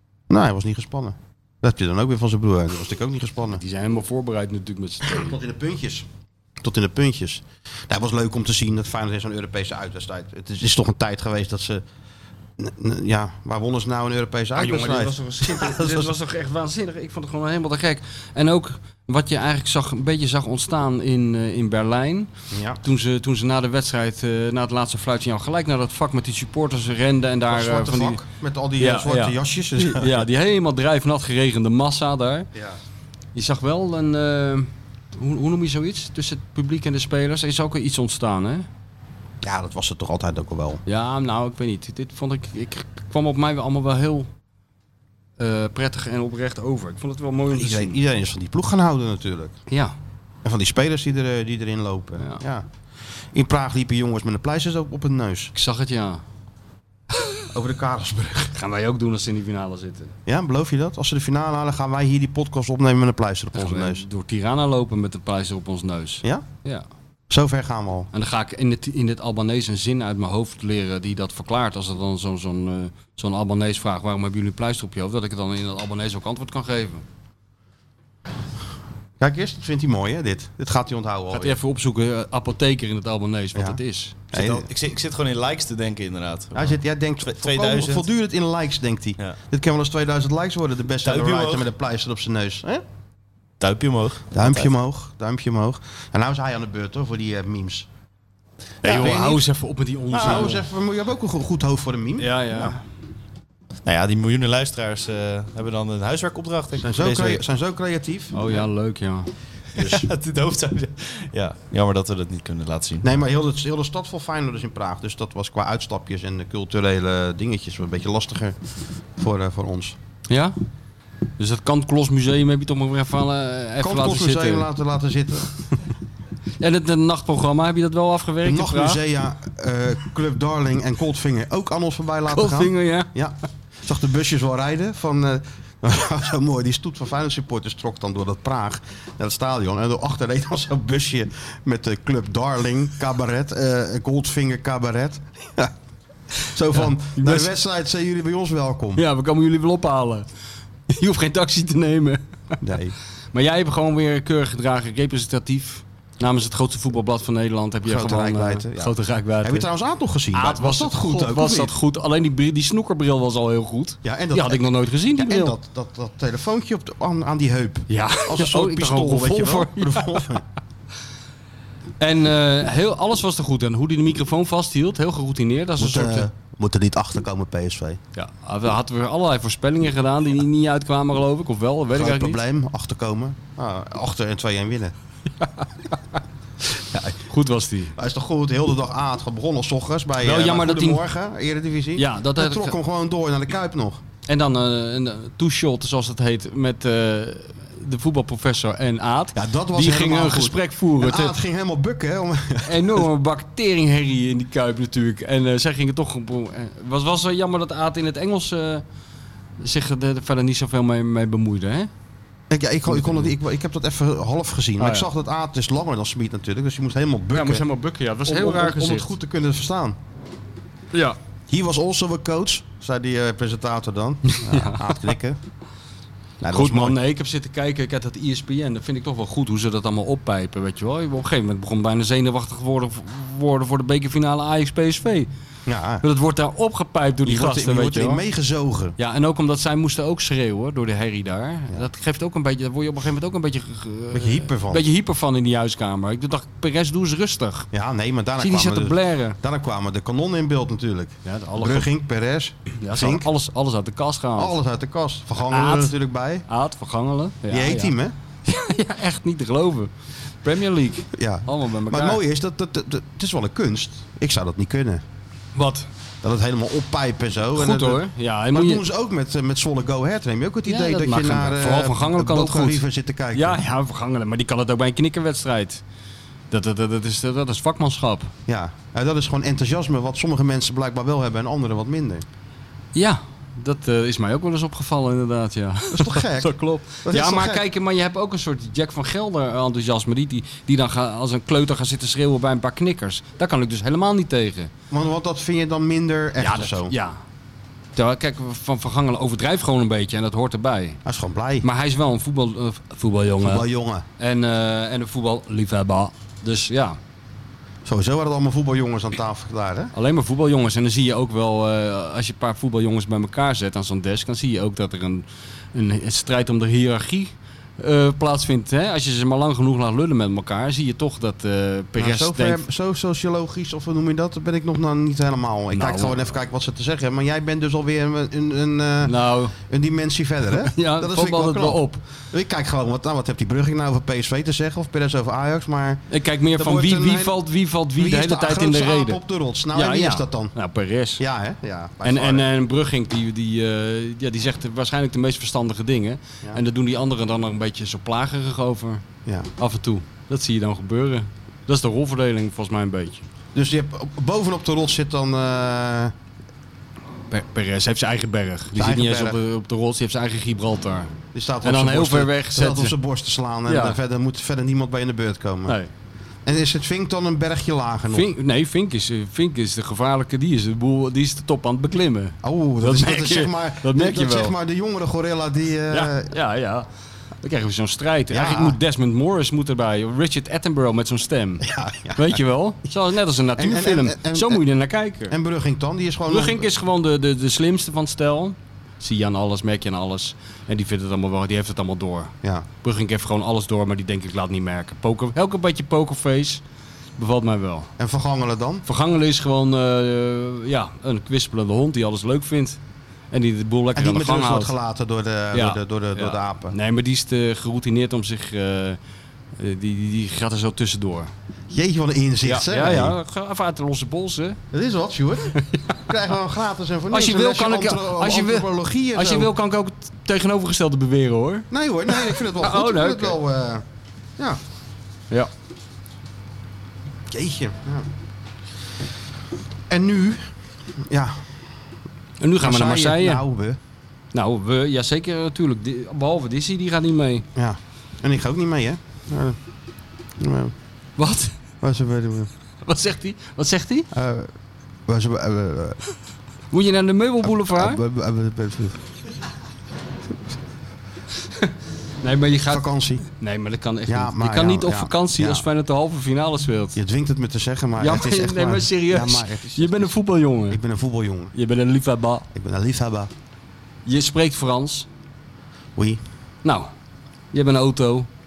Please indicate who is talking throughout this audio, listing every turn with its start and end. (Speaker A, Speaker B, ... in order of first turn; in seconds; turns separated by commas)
Speaker A: 0.3-3.6, Speaker B: 3.5-5.4, Speaker A: 5.0-6.1, Speaker A: 6.6-11.8, Speaker A: 12.6-16.1, Speaker B: 14.6-22.3, Speaker A: 22.5-22.8, Speaker B: 22.8-28.2, Speaker A: 27.5-30.2, Speaker B: 28.8-32.5, Speaker B: 33.4-38.7, Speaker A: 39.4-40.8, Speaker B: 40.9-44.3, Speaker B: 45.4-48.0, Speaker A: 47.5-49.6, Speaker B: 49.7-49.9, Speaker A: 50.4-52.6, Speaker A: 53.3-55.5, Speaker B: 55.5-56.2, Speaker B: 57.1-57.4, Speaker A: 57.5-58.6, Speaker B: 58.5-60.1, Speaker A: 60.3-64.0, Speaker B: 63.5-66.9, Speaker A: 67.3-68.1, Speaker B: 68.1-77.0, Speaker A: 79.2-81.6, Speaker B: 81.3-84.2, Speaker A: 84.3-84.7, Speaker C: 84.3-88.1, Speaker A: 86.6-92.8, Speaker C: 91.0-91.7, Speaker C: 93.6-94.7, Speaker A: 94.3-97.9, Speaker C: 98.8-99.2, Speaker A: 98.8-99.4, Speaker B: 98.8-100.6, Speaker A: 100.1-102.7, Speaker B: 102.2-102.8, Speaker C: 103.9-107.4, Speaker A: 106.8-108.3, Speaker B: 108.3-110.1, Speaker C: 109.8-113.1, Speaker A: 113.0-118.6, Speaker A: 119.2-120.0, Speaker B: 120.3-120.5, Speaker B: 121.4-124.7, Speaker A: 123.8-125.5, Speaker B: 126.6-129.0, Speaker A: 128.4-145.7, Speaker B: 132.3-133.1, Speaker A: 146.4-149.0, Speaker B: 146.8-147.5, Speaker B: 148.9-150.3, Speaker B: 150.9-152.2, Speaker A: 152.6-152.9, Speaker B: 153.3-159.7, Speaker A: 157.8-161.7, Speaker B: 160.3-165.6, Speaker A: 164.0-170.4, Speaker B: 167.9-170.2, Speaker B: 172.0-176.3, Speaker A: 175.8-178.0, Speaker B: 178.1-182.4, Speaker A: 181.9-184.9, Speaker B: 185.4-185.7, Speaker A: 186.9-187.2, Speaker B: 187.3-187.9, Speaker A: 187.9-194.0, Speaker B: 190.2-191.0, Speaker B: 191.9-192.8, Speaker B: 194.3-201.4, Speaker A: 199.3-203.1, Speaker B: 202.6-208.8, Speaker B: 209.6-211.9, Speaker A: 212.5-217.6, Speaker B: 212.9-213.3, Speaker B: 214.8-215.1, Speaker B: 217.3-219.1, Speaker A: 218.2-220.0, Speaker B: 220.9-221.2, Speaker A: 221.5-225.4, Speaker B: 224.3-225.1, Speaker A: 226.4-227.0, Speaker B: 226.5-235.3, Speaker A: 235.7-236.0, Speaker B: 236.0-238.2, Speaker A: 237.2-238.9, Speaker B: 239.0-247.7, Speaker A: 244.1-244.8, Speaker A: 247.7-253.3, Speaker B: 248.4-249.4, Speaker B: 251.2-251.9, Speaker B: 252.8-254.6, Speaker A: 254.4-256.4, Speaker B: 255.5-255.9, Speaker B: 256.5-259.9, Speaker A: 257.5-258.1, Speaker B: 260.4-262.2, Speaker A: 261.1-265.0, Speaker B: 265.6-265.9, Speaker A: 266.2-273.6, Speaker B: 267.6-268.8, Speaker B: 270.6-275.8, Speaker B: 276.5-278.3, Speaker A: 278.5-282.2, Speaker B: 282.9-294.7, Speaker A: 285.9-287.6, Speaker A: 294.9-296.9, Speaker B: 296.4-297.2, Speaker B: 297.9-301.0, Speaker A: 301.1-301.6, Speaker B: 301.6-303.6, Speaker A: 303.4-304.1, Speaker B: 304.2-307.0, Speaker A: 307.9-309.9, Speaker B: 309.9-322.6, Speaker A: 321.9-337.4, Speaker B: 325.7-326.2, Speaker B: 329.0-329.6, Speaker B: 330.6-332.0, Speaker B: 336.1-339.2, Speaker A: 337.9-340.5, Speaker B: 339.7-341.2, Speaker A: 341.2-342.5, Speaker B: 342.0-349.0, Speaker B: 349.6-353.2, Speaker A: 353.5-356.1, Speaker B: 357.3-363.0, Speaker A: 358.8-359.4, Speaker A: 361.3-365.8, Speaker B: 363.6-364.0, Speaker A: 366.5-368.3, Speaker B: 368.1-374.5, Speaker A: 372.4-376.3, Speaker B: 375.9-376.9, Speaker B: 377.4-385.4, Speaker A: 378.3-378.8, Speaker A: 381.6-382.4, Speaker A: 383.6-384.6, Speaker A: 385.3-386.7, Speaker B: 386.3-396.6, Speaker B: 397.2-397.9, Speaker A: 398.0-398.9, Speaker B: 398.9-402.8, Speaker B: 403.3-404.8, Speaker A: 403.9-406.8, Speaker B: 405.5-409.0, Speaker B: 409.6-411.3, Speaker A: 411.7-413.1, Speaker B: 412.4-414.6, Speaker A: 414.7-419.5, Speaker B: 415.5-416.0, Speaker B: 417.1-423.4, Speaker A: 421.7-423.9, Speaker A: 427.3-428.1, Speaker A: 429.9-431.4, Speaker B: 432.4-433.4, Speaker A: 432.6-433.8, Speaker B: 434.3-437.5, Speaker A: 437.6-439.6, Speaker A: 440.4-440.7, Speaker B: 441.2-441.5, Speaker A: 441.8-442.5, Speaker B: 442.8-444.1, Speaker A: 444.1-444.5, Speaker A: 445.1-446.0, Speaker B: 446.7-448.0, Speaker A: 447.4-449.0, Speaker B: 452.2-457.0, Speaker A: 452.7-453.2, Speaker A: 454.1-455.6, Speaker A: 456.9-460.1, Speaker B: 458.0-460.8, Speaker A: 460.7-461.5, Speaker B: 461.5-462.5, Speaker A: 462.5-463.3, Speaker B: 464.1-465.1, Speaker A: 466.0-466.2, Speaker B: 466.6-466.9, Speaker B: 467.5-468.3